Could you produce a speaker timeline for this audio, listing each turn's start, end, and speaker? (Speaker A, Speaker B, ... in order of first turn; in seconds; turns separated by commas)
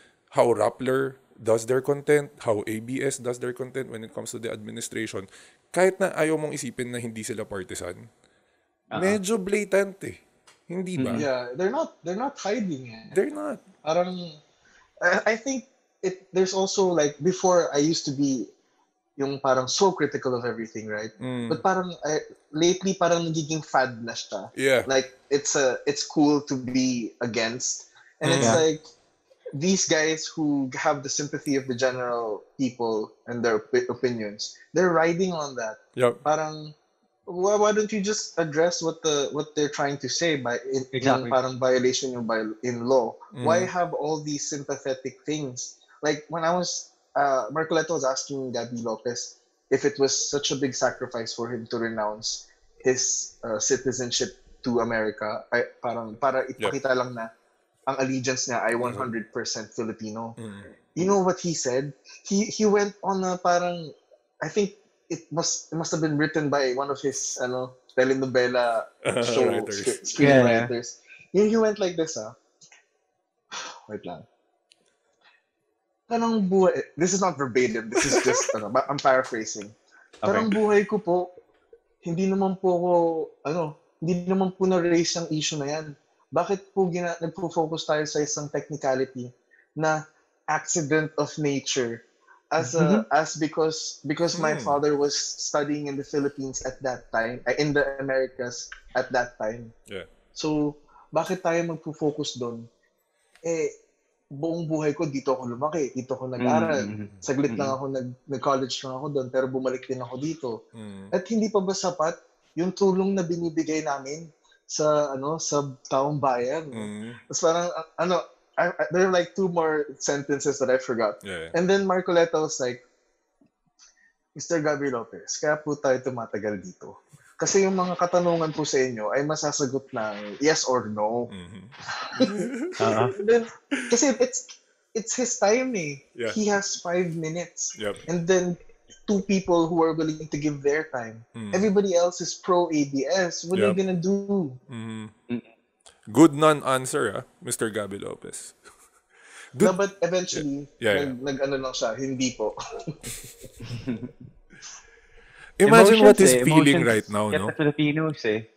Speaker A: 0.3-8.1, Speaker B: 8.9-9.2, Speaker A: 8.9-11.2, Speaker B: 11.0-11.2, Speaker C: 11.1-13.2, Speaker A: 13.1-13.6, Speaker C: 13.8-14.4, Speaker C: 15.0-18.5, Speaker C: 19.2-28.8, Speaker A: 21.2-21.6, Speaker A: 24.5-24.9, Speaker A: 28.2-28.6, Speaker B: 28.4-28.6, Speaker C: 29.5-36.7, Speaker C: 37.3-57.3, Speaker B: 40.9-41.4, Speaker A: 43.3-43.7, Speaker C: 57.9-60.4, Speaker A: 58.8-59.1, Speaker A: 60.4-60.7, Speaker C: 60.9-72.3, Speaker A: 69.0-70.0, Speaker B: 70.2-70.7, Speaker C: 73.5-74.2, Speaker C: 76.1-81.3, Speaker B: 80.2-80.5, Speaker C: 82.0-99.7, Speaker B: 92.6-93.0, Speaker A: 94.3-94.8, Speaker C: 100.3-102.7, Speaker C: 103.4-103.7, Speaker C: 104.3-122.8, Speaker B: 106.4-107.7, Speaker A: 110.7-111.1, Speaker A: 116.7-117.2, Speaker A: 121.2-121.5, Speaker C: 124.3-131.3, Speaker A: 131.3-133.0, Speaker C: 131.9-144.6, Speaker B: 132.8-133.1, Speaker A: 137.8-138.0, Speaker A: 141.3-141.7, Speaker A: 143.5-143.8, Speaker A: 144.7-145.1, Speaker A: 146.1-148.6, Speaker C: 149.6-152.6, Speaker A: 150.3-151.1, Speaker B: 153.7-154.1, Speaker A: 155.6-157.5, Speaker B: 155.6-158.5